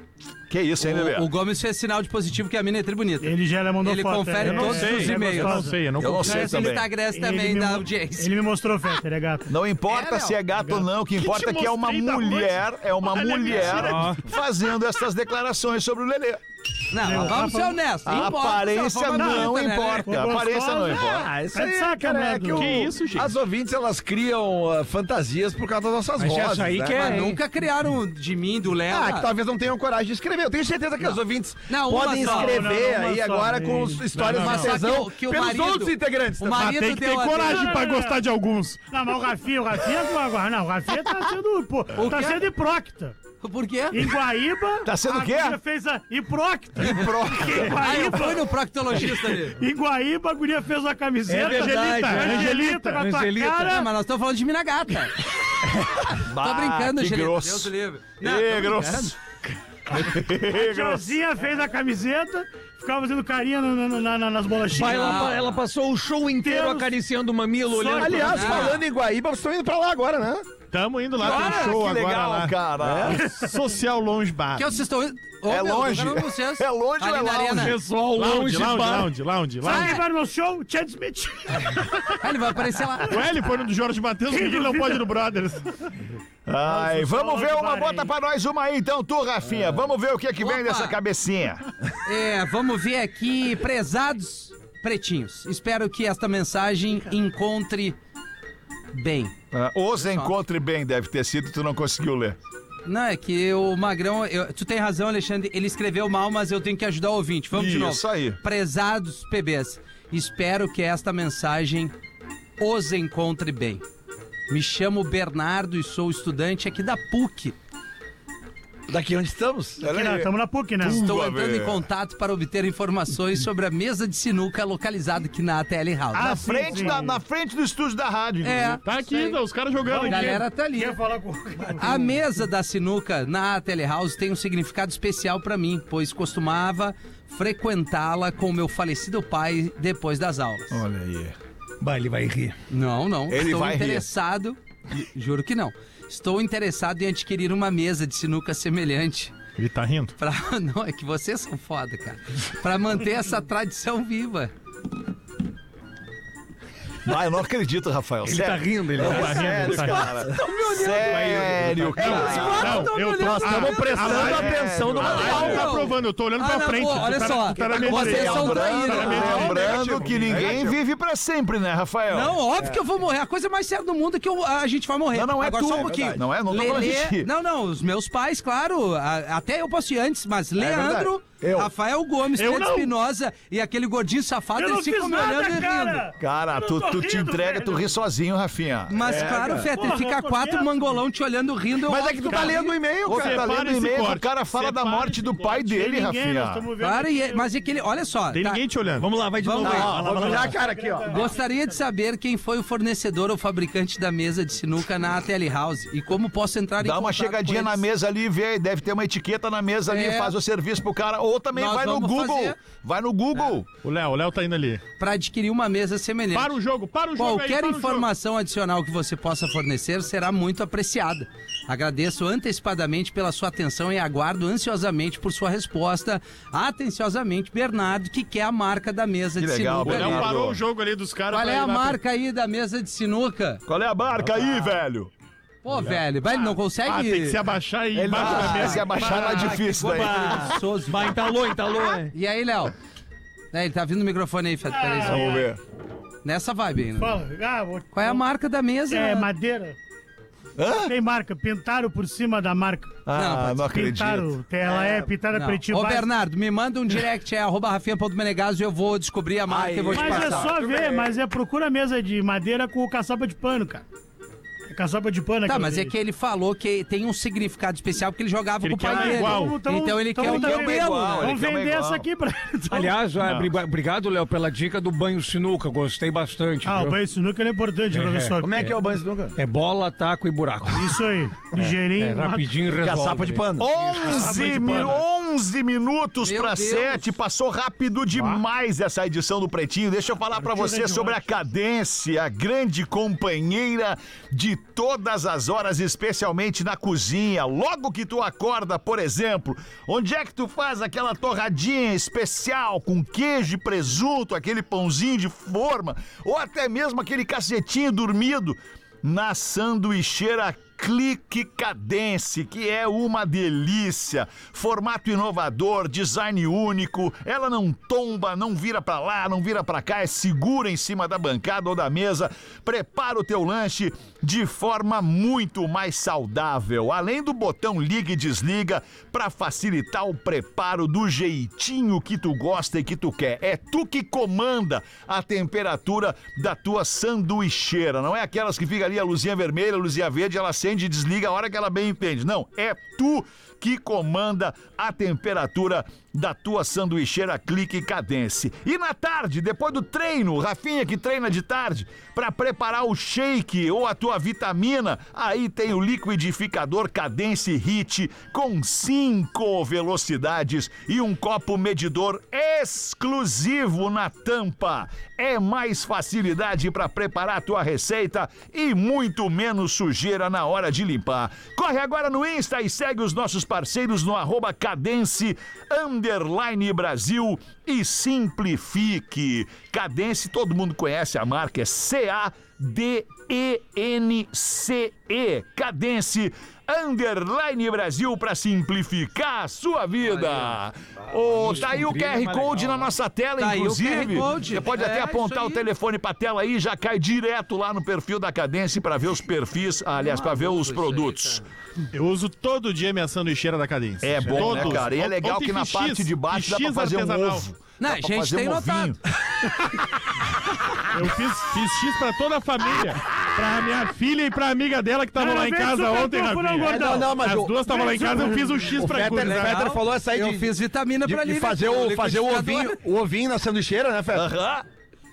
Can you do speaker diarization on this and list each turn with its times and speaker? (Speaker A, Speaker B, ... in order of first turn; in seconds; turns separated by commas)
Speaker A: 0.5-1.3, Speaker B: 0.8-8.3, Speaker C: 3.2-5.8, Speaker D: 4.4-6.7, Speaker A: 6.0-6.9, Speaker C: 7.1-9.5, Speaker A: 9.5-16.4, Speaker B: 9.9-10.3, Speaker D: 11.2-12.5, Speaker C: 13.1-14.1, Speaker D: 13.5-14.2, Speaker E: 13.8-14.1, Speaker B: 16.9-20.1, Speaker C: 17.0-17.8, Speaker A: 18.0-21.3, Speaker C: 19.2-19.4, Speaker C: 20.0-22.9, Speaker F: 21.0-27.2, Speaker D: 22.5-23.3, Speaker E: 26.2-27.4, Speaker B: 26.9-29.3, Speaker F: 28.9-36.6, Speaker B: 31.7-32.7, Speaker C: 32.1-34.6, Speaker D: 34.1-34.7, Speaker B: 34.2-37.7, Speaker D: 36.5-38.8, Speaker C: 37.4-38.2, Speaker C: 38.9-43.2, Speaker B: 41.9-42.5, Speaker B: 43.4-44.1, Speaker C: 43.9-48.5, Speaker A: 44.8-45.6, Speaker A: 46.8-48.1, Speaker B: 47.6-49.6, Speaker C: 49.0-53.9, Speaker E: 51.3-53.9, Speaker D: 51.4-53.0, Speaker B: 53.6-55.2, Speaker A: 56.2-59.2, Speaker B: 56.3-59.1, Speaker A: 59.9-61.2, Speaker C: 59.9-65.4, Speaker E: 64.7-68.7, Speaker B: 64.8-65.6, Speaker C: 66.4-66.9, Speaker C: 67.7-68.7, Speaker F: 67.9-70.4, Speaker B: 68.2-68.8, Speaker D: 70.7-74.7, Speaker B: 71.2-71.8, Speaker A: 71.2-73.2, Speaker F: 72.8-73.2, Speaker B: 74.5-77.8, Speaker A: 75.5-77.8, Speaker E: 77.5-79.1, Speaker D: 78.1-80.0, Speaker B: 79.6-80.0, Speaker C: 79.6-82.2, Speaker B: 82.2-83.2, Speaker D: 83.1-85.7, Speaker C: 84.3-85.1, Speaker A: 86.5-91.6, Speaker C: 86.6-88.1, Speaker B: 90.4-91.0, Speaker B: 92.0-98.0, Speaker B: 98.9-99.3, Speaker A: 99.5-102.4, Speaker B: 100.0-100.3, Speaker B: 102.8-111.9, Speaker A: 107.5-108.4, Speaker B: 112.6-113.8, Speaker B: 114.5-117.5, Speaker F: 118.9-119.8, Speaker A: 119.8-121.8, Speaker C: 119.8-121.0, Speaker B: 120.8-127.0, Speaker C: 126.1-127.2, Speaker A: 126.2-128.8, Speaker B: 128.4-129.4, Speaker D: 128.8-130.4, Speaker C: 129.8-132.2, Speaker B: 129.9-131.0, Speaker B: 131.8-140.8, Speaker A: 140.7-141.3, Speaker E: 141.8-142.6, Speaker B: 142.7-149.3, Speaker A: 143.3-144.1, Speaker D: 149.6-150.1, Speaker B: 150.2-154.5, Speaker A: 157.0-162.8, Speaker E: 158.2-160.1, Speaker D: 159.0-160.1, Speaker F: 160.0-161.5, Speaker E: 160.6-162.5, Speaker B: 161.9-164.4, Speaker D: 161.9-170.6, Speaker F: 163.1-165.7, Speaker A: 164.0-165.7, Speaker B: 165.0-169.6, Speaker F: 167.5-170.8, Speaker A: 168.2-172.4, Speaker B: 172.1-186.1, Speaker F: 172.6-172.8, Speaker A: 175.1-177.3, Speaker F: 175.6-176.7, Speaker A: 180.6-181.1, Speaker F: 181.4-181.7, Speaker C: 182.4-182.9, Speaker C: 184.6-187.9, Speaker A: 186.2-189.0, Speaker B: 188.9-192.7, Speaker F: 189.0-189.7, Speaker C: 189.7-191.0, Speaker F: 191.8-193.4, Speaker D: 192.2-195.7, Speaker A: 193.0-196.7, Speaker C: 195.7-197.5, Speaker B: 196.8-198.6, Speaker D: 198.3-199.1, Speaker E: 199.0-200.5, Speaker B: 199.4-200.1, Speaker F: 199.6-201.3, Speaker D: 199.7-200.5, Speaker C: 200.1-201.7, Speaker B: 201.1-207.8, Speaker A: 206.8-213.7, Speaker B: 209.9-210.3, Speaker B: 211.5-212.6, Speaker D: 213.8-214.8, Speaker B: 215.0-216.6, Speaker D: 216.3-218.1, Speaker B: 217.2-230.3, Speaker A: 229.4-230.6, Speaker D: 229.8-232.0, Speaker B: 231.3-233.6, Speaker A: 233.7-235.1, Speaker B: 235.6-237.4, Speaker D: 236.8-239.3, Speaker F: 237.9-239.1, Speaker A: 238.1-240.2, Speaker B: 238.3-241.2, Speaker E: 239.8-242.1, Speaker B: 242.1-242.7, Speaker B: 243.5-245.5, Speaker C: 244.8-245.3, Speaker A: 245.1-245.6, Speaker B: 246.2-247.2, Speaker C: 247.0-248.2, Speaker B: 247.9-249.3, Speaker C: 248.9-249.8, Speaker A: 250.6-250.9, Speaker C: 250.8-253.0, Speaker A: 253.1-254.3, Speaker B: 253.1-253.6, Speaker C: 253.6-256.1, Speaker B: 254.7-260.6, Speaker F: 259.5-261.1, Speaker C: 259.9-263.8, Speaker C: 264.7-265.9, Speaker B: 265.4-271.4, Speaker D: 268.6-269.6, Speaker C: 268.9-273.0, Speaker A: 270.2-272.1, Speaker E: 272.7-277.0, Speaker A: 273.2-273.5, Speaker C: 276.6-278.7, Speaker E: 277.9-278.7, Speaker F: 278.4-279.4, Speaker E: 279.3-281.0, Speaker C: 280.7-282.5, Speaker E: 281.5-283.6, Speaker F: 282.8-283.7, Speaker A: 283.6-401.4, Speaker C: 284.0-284.9, Speaker B: 286.2-287.1, Speaker C: 290.4-291.2, Speaker B: 390.0-390.5, Speaker E: 391.1-392.9, Speaker B: 393.4-395.6, Speaker B: 400.0-401.4, Speaker D: 401.9-407.4, Speaker A: 404.0-409.0, Speaker E: 404.3-404.8, Speaker B: 407.8-409.0, Speaker D: 410.9-419.7, Speaker C: 415.1-417.2, Speaker F: 416.6-424.3, Speaker C: 417.9-418.6, Speaker B: 419.0-422.8, Speaker A: 424.1-424.6